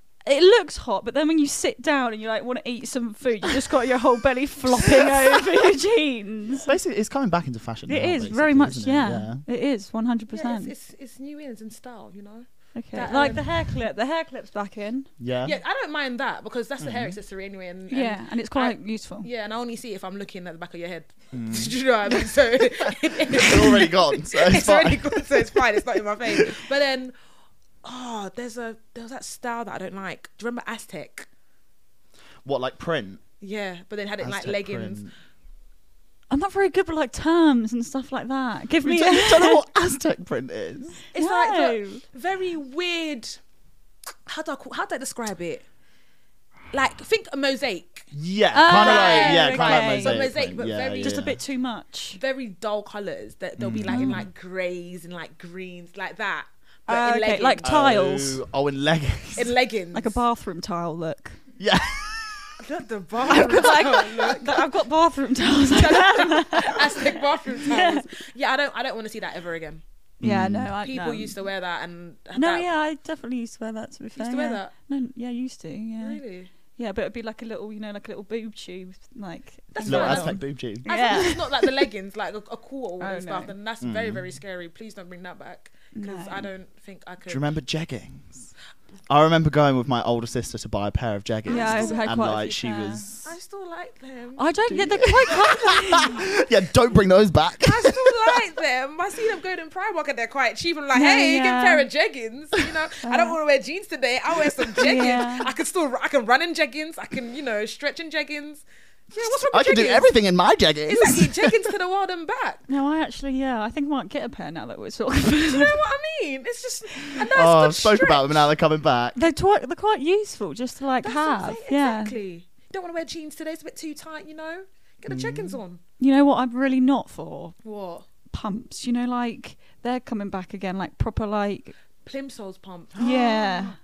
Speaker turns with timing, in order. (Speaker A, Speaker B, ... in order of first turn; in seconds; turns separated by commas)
Speaker A: 0.2-6.7, Speaker B: 6.7-9.4, Speaker A: 7.9-10.7, Speaker C: 10.3-13.5, Speaker A: 12.8-15.1, Speaker B: 15.2-15.6, Speaker C: 15.4-27.1, Speaker B: 16.8-17.2, Speaker A: 17.9-19.3, Speaker B: 21.3-21.8, Speaker B: 22.8-26.5, Speaker C: 27.8-31.2, Speaker B: 32.4-33.2, Speaker C: 33.4-35.0, Speaker B: 34.2-35.1, Speaker A: 36.3-39.6, Speaker B: 38.8-41.0, Speaker C: 41.1-43.4, Speaker A: 41.1-42.0, Speaker C: 44.3-45.6, Speaker C: 46.7-48.1, Speaker B: 48.1-51.4, Speaker A: 48.5-50.2, Speaker C: 48.6-51.2, Speaker A: 50.9-52.2, Speaker C: 52.1-57.7, Speaker B: 53.6-54.2, Speaker A: 53.9-54.3, Speaker A: 56.9-58.4, Speaker B: 57.6-59.5, Speaker C: 59.4-60.2, Speaker A: 59.9-61.4, Speaker B: 61.6-62.5, Speaker C: 62.6-64.7, Speaker A: 63.3-68.1, Speaker C: 65.7-69.8, Speaker A: 70.2-71.4, Speaker B: 70.2-70.7, Speaker C: 70.8-72.7, Speaker A: 72.3-76.2, Speaker C: 74.2-74.7, Speaker C: 76.0-76.5, Speaker A: 76.8-81.9, Speaker C: 79.7-87.5, Speaker B: 79.9-80.9, Speaker A: 83.0-83.5, Speaker B: 83.8-84.3, Speaker A: 85.9-86.5, Speaker B: 87.2-88.5, Speaker B: 89.1-93.3, Speaker C: 91.5-92.1, Speaker A: 91.5-93.0, Speaker C: 93.2-94.5, Speaker A: 94.4-96.3, Speaker B: 94.7-98.4, Speaker C: 97.6-110.1, Speaker A: 100.9-101.9, Speaker A: 103.0-103.4, Speaker A: 104.8-105.5, Speaker B: 109.5-111.7, Speaker C: 110.9-112.7, Speaker A: 112.7-115.8, Speaker C: 115.5-118.4, Speaker B: 117.2-119.2, Speaker A: 119.2-122.2, Speaker C: 121.0-125.8, Speaker B: 125.1-125.6, Speaker A: 126.0-127.5, Speaker C: 127.6-128.1, Speaker A: 128.3-131.7, Speaker C: 132.1-133.8, Speaker A: 133.0-133.8